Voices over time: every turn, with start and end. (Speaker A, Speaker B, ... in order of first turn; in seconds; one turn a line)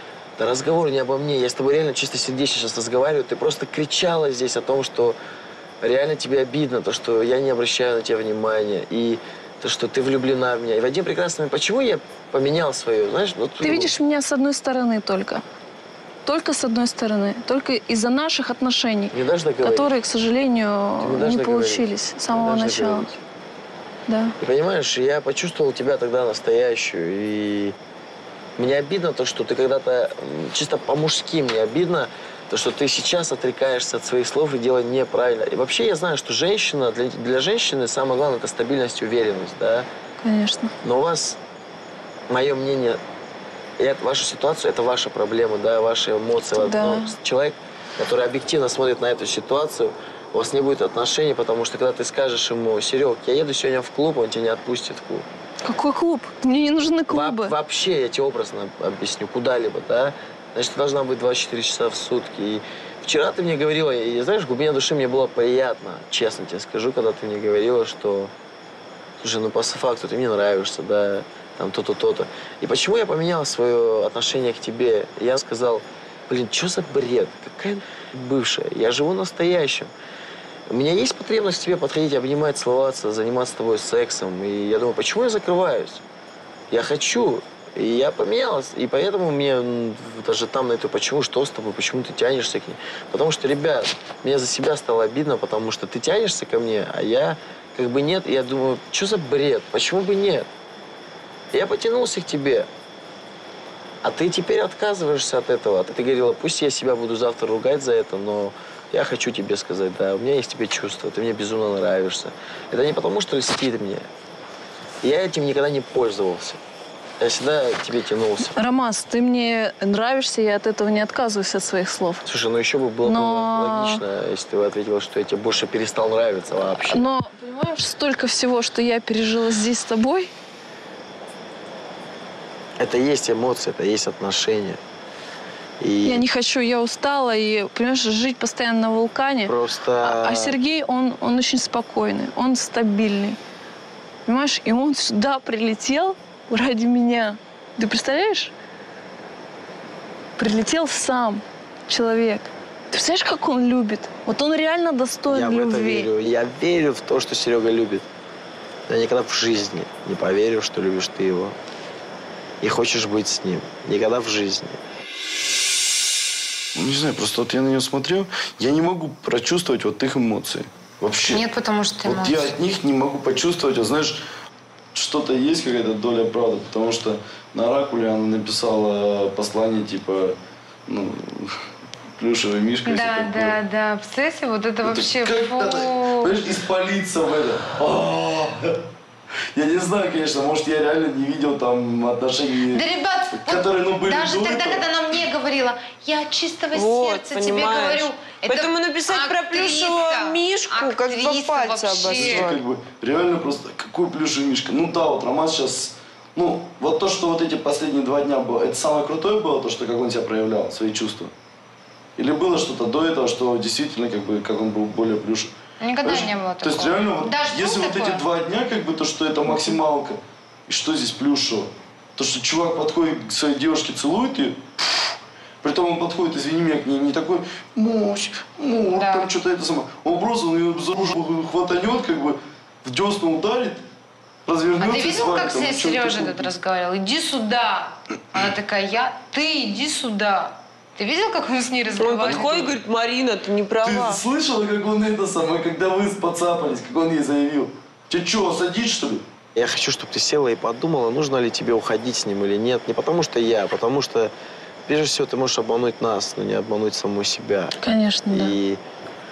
Speaker A: 0.4-5.2
Speaker A: 5.8-13.9
Speaker B: 13.6-15.4
Speaker B: 16.2-23.1
Speaker A: 19.1-19.9
Speaker A: 21.0-23.2
Speaker B: 24.1-24.3
Speaker A: 24.4-27.7
Speaker A: 28.6-39.9
Speaker B: 40.2-40.7
Speaker A: 40.8-41.4
Speaker A: 42.3-43.0
Speaker A: 43.8-55.2
Speaker B: 46.5-47.1
Speaker B: 55.6-57.5
Speaker A: 57.1-68.3
Speaker A: 69.2-79.9
Speaker A: 80.7-86.0
Speaker A: 86.7-100.5
Speaker A: 101.5-102.7
Speaker A: 104.0-114.1
Speaker A: 115.0-116.6
Speaker A: 117.2-118.5
Speaker B: 118.5-122.2
Speaker A: 122.2-127.0
Speaker B: 123.0-124.0
Speaker B: 126.8-130.3
Speaker A: 132.8-134.8
Speaker A: 135.8-136.2
Speaker B: 136.0-143.4
Speaker A: 139.4-140.5
Speaker B: 144.2-148.5
Speaker B: 150.4-156.1
Speaker A: 155.3-158.0
Speaker A: 158.9-161.5
Speaker A: 162.6-164.8
Speaker C: 166.8-171.4
Speaker D: 171.3-172.5
Speaker C: 172.0-174.2
Speaker C: 174.9-180.3
Speaker C: 180.9-181.6
Speaker C: 182.2-183.6
Speaker D: 182.8-186.4
Speaker C: 184.8-188.8
Speaker C: 189.5-192.8
Speaker D: 192.7-202.5
Speaker C: 193.3-194.8
Speaker E: 196.7-202.6
Speaker C: 202.1-211.3
Speaker C: 212.2-224.6
Speaker D: 215.8-218.2
Speaker C: 225.6-233.8
Speaker D: 228.9-229.3
Speaker C: 234.4-236.5
Speaker D: 234.8-242.7
Speaker E: 241.9-244.2
Speaker C: 243.8-249.2
Speaker A: 249.5-254.3
Speaker A: 254.8-257.7
Speaker B: 257.8-258.5
Speaker A: 258.3-258.8